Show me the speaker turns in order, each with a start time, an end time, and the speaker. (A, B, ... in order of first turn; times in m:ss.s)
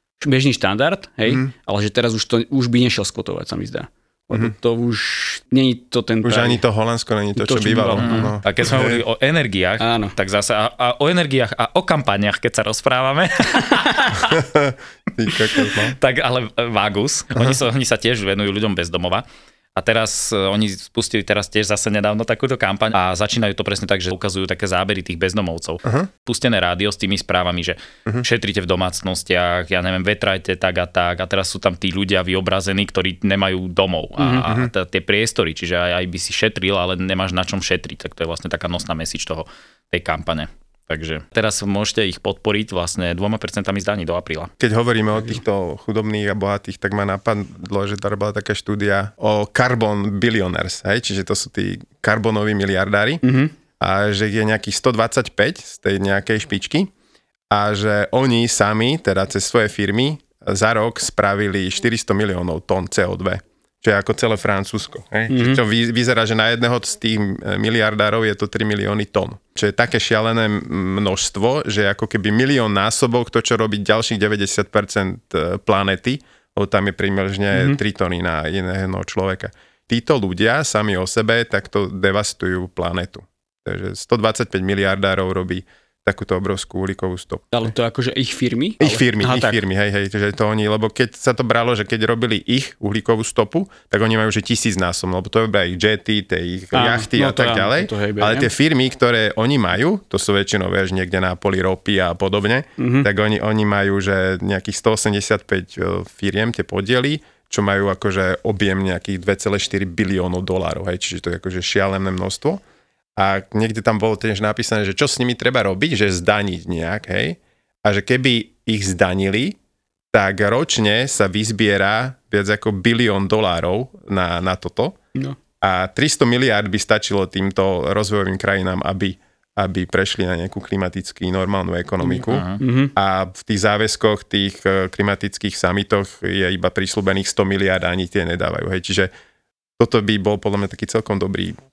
0:00.2-0:06.6 A
0:06.2-0:09.0 B
0:07.4-0:08.3 A
0:08.0-0:14.4 C
0:09.8-0:10.1 A
0:13.7-0:14.1 A
0:14.3-0:16.0 B
0:15.3-0:19.2 C
0:19.7-0:44.5 C
0:25.8-0:26.1 B
0:34.2-0:34.5 A
0:34.4-0:34.7 B
0:44.6-0:53.2 B
0:53.2-0:53.5 A
0:53.8-0:56.9 B
0:57.5-1:27.7 B
1:05.3-1:05.6 A
1:17.5-1:17.8 A
1:27.5-1:29.6 A
1:28.8-1:52.6 B
1:36.7-1:38.5 A
1:42.8-1:43.1 A
1:53.2-1:59.6 B
2:00.1-2:05.0 B
2:05.6-2:19.1 B
2:12.0-2:12.9 A
2:12.3-2:12.6 C
2:19.8-2:21.6 B